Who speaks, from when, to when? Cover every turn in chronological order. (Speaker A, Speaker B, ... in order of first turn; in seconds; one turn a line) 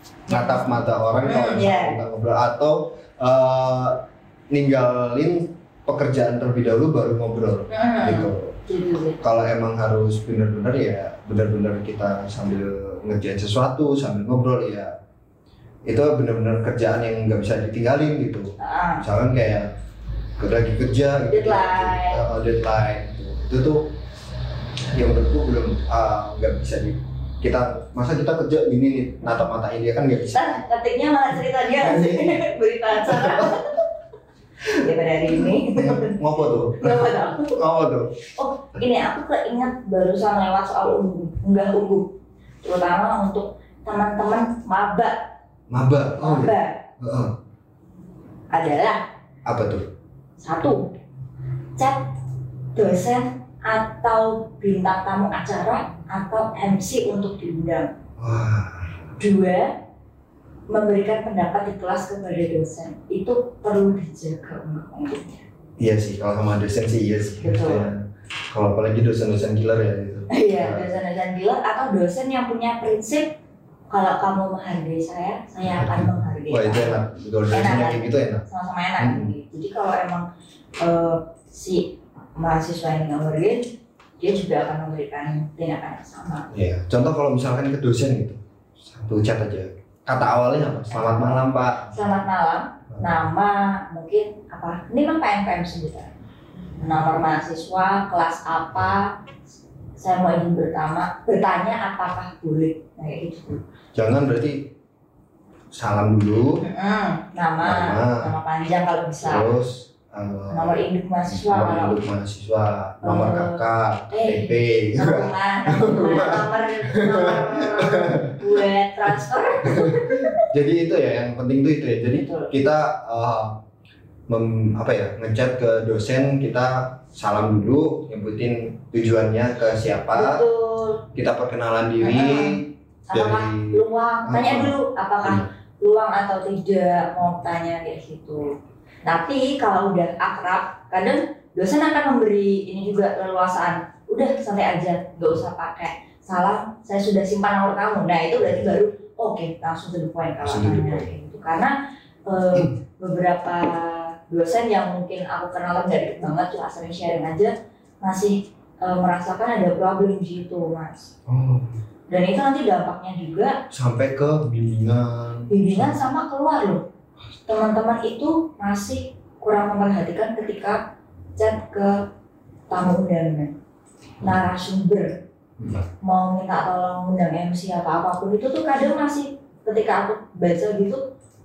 Speaker A: 0.3-2.0
Speaker B: 0.3-8.5
Speaker A: 7.7-9.2
Speaker B: 9.2-14.9
Speaker B: 15.9-19.7
Speaker A: 18.6-19.0
Speaker B: 20.4-23.9
Speaker A: 21.3-22.3
Speaker B: 24.9-30.6
Speaker A: 30.3-33.8
Speaker B: 31.8-32.5
Speaker B: 33.0-33.6
Speaker A: 34.8-36.2
Speaker B: 35.3-38.1
Speaker A: 36.8-37.6
Speaker A: 38.4-45.3
Speaker B: 45.7-47.4
Speaker A: 46.2-46.8
Speaker A: 48.5-49.0
Speaker B: 49.5-49.9
Speaker A: 50.4-50.9
Speaker A: 51.8-52.1
Speaker A: 52.8-57.9
Speaker B: 58.2-59.1
Speaker A: 59.2-59.8
Speaker A: 60.7-65.4
Speaker B: 65.8-70.9
Speaker A: 67.4-67.9
Speaker A: 70.3-73.4
Speaker A: 73.9-80.3
Speaker B: 75.7-78.4
Speaker B: 79.0-79.3
Speaker A: 80.8-83.7
Speaker A: 84.2-86.5
Speaker B: 86.5-92.2
Speaker A: 90.9-96.1
Speaker A: 96.8-99.2
Speaker A: 100.0-103.6
Speaker B: 103.9-104.7
Speaker B: 105.7-106.6
Speaker A: 106.6-109.6
Speaker B: 107.6-108.3
Speaker B: 109.2-118.7
Speaker A: 110.5-112.0
Speaker A: 113.0-120.5
Speaker B: 119.6-123.6
Speaker A: 122.1-122.5
Speaker B: 124.3-130.4
Speaker A: 130.1-131.0
Speaker B: 131.1-135.5
Speaker A: 132.0-161.1
Speaker B: 150.4-151.1
Speaker B: 161.3-161.7
Speaker A: 162.1-163.6
Speaker B: 163.7-165.9
Speaker A: 165.5-166.8
Speaker A: 167.5-170.8
Speaker A: 171.4-172.1
Speaker A: 172.7-173.5
Speaker A: 174.2-175.1
Speaker B: 175.6-175.8
Speaker A: 176.0-181.0